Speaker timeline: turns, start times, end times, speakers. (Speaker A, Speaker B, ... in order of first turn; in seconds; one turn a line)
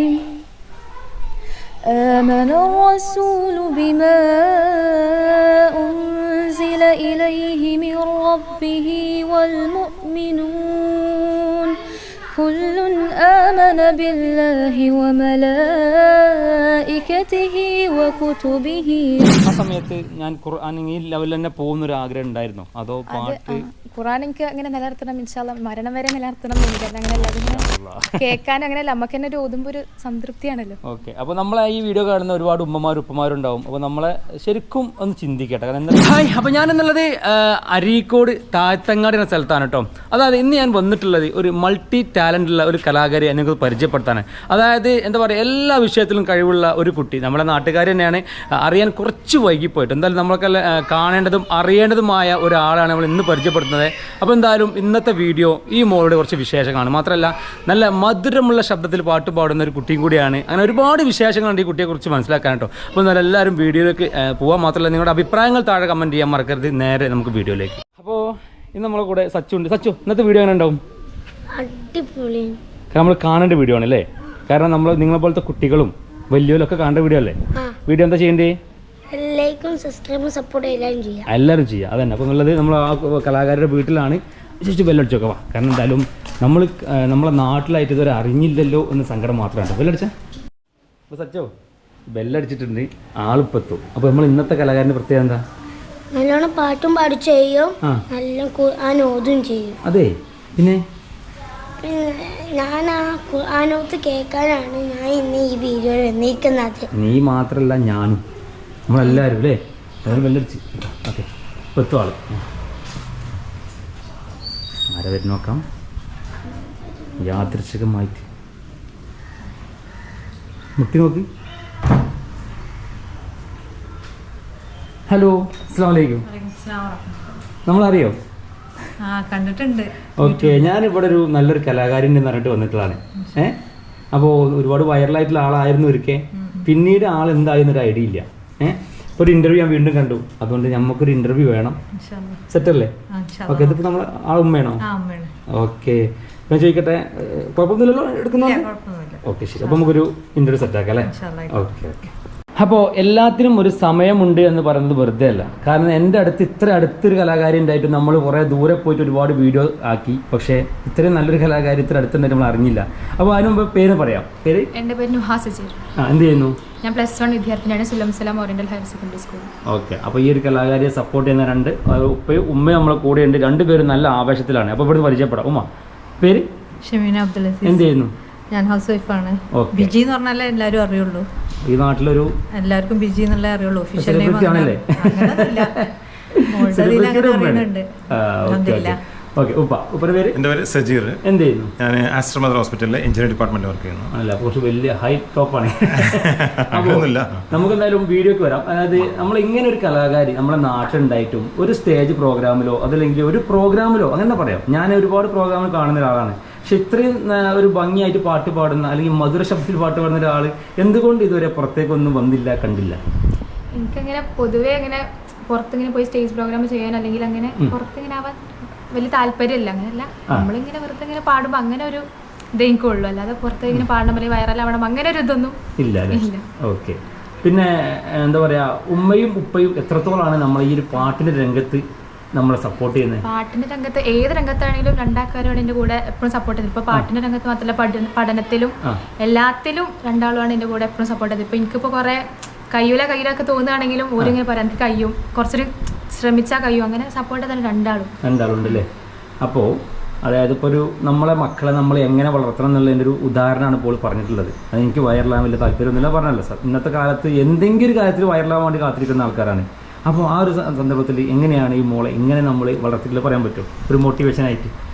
Speaker A: 1.9-11.7
Speaker A: 12.3-19.3
Speaker B: 19.4-23.6
Speaker C: 23.1-27.6
Speaker B: 27.1-28.3
Speaker C: 28.2-30.7
Speaker B: 30.9-70.8
Speaker D: 71.5-72.6
Speaker B: 72.9-78.5
Speaker D: 79.1-81.2
Speaker B: 81.3-90.1
Speaker B: 91.1-91.5
Speaker B: 92.1-95.4
Speaker D: 96.1-99.8
Speaker B: 99.8-100.8
Speaker D: 101.8-106.8
Speaker B: 106.9-108.2
Speaker B: 108.9-112.3
Speaker B: 114.9-115.6
Speaker B: 117.2-118.2
Speaker B: 120.8-121.2
Speaker B: 125.1-126.2
Speaker E: 126.2-127.4
Speaker B: 127.7-128.2
Speaker E: 129.1-130.7
Speaker B: 130.2-133.6
Speaker B: 134.1-141.8
Speaker E: 136.4-136.7
Speaker E: 141.9-142.4
Speaker B: 142.5-142.9
Speaker E: 143.1-143.8
Speaker B: 143.5-144.8
Speaker E: 144.8-145.3
Speaker B: 145.5-148.7
Speaker E: 148.3-149.9
Speaker B: 149.2-164.7
Speaker E: 151.0-151.7
Speaker C: 164.8-165.8
Speaker B: 166.0-166.6
Speaker C: 166.8-169.5
Speaker B: 169.7-175.7
Speaker B: 176.2-176.4
Speaker E: 176.8-177.8
Speaker B: 177.6-178.1
Speaker E: 178.5-181.2
Speaker B: 179.6-179.9
Speaker B: 181.6-182.3
Speaker E: 182.5-185.7
Speaker B: 184.0-185.6
Speaker B: 186.3-190.4
Speaker E: 186.5-187.9
Speaker E: 188.4-189.0
Speaker F: 190.3-191.2
Speaker B: 191.2-191.7
Speaker F: 191.8-194.1
Speaker B: 194.1-213.0
Speaker F: 196.1-197.6
Speaker C: 213.8-218.4
Speaker C: 218.9-222.0
Speaker C: 222.6-225.5
Speaker B: 225.8-231.8
Speaker C: 226.1-226.4
Speaker B: 232.3-233.2
Speaker C: 233.2-238.7
Speaker C: 239.2-242.2
Speaker C: 242.7-248.1
Speaker B: 248.2-248.9
Speaker B: 249.4-264.7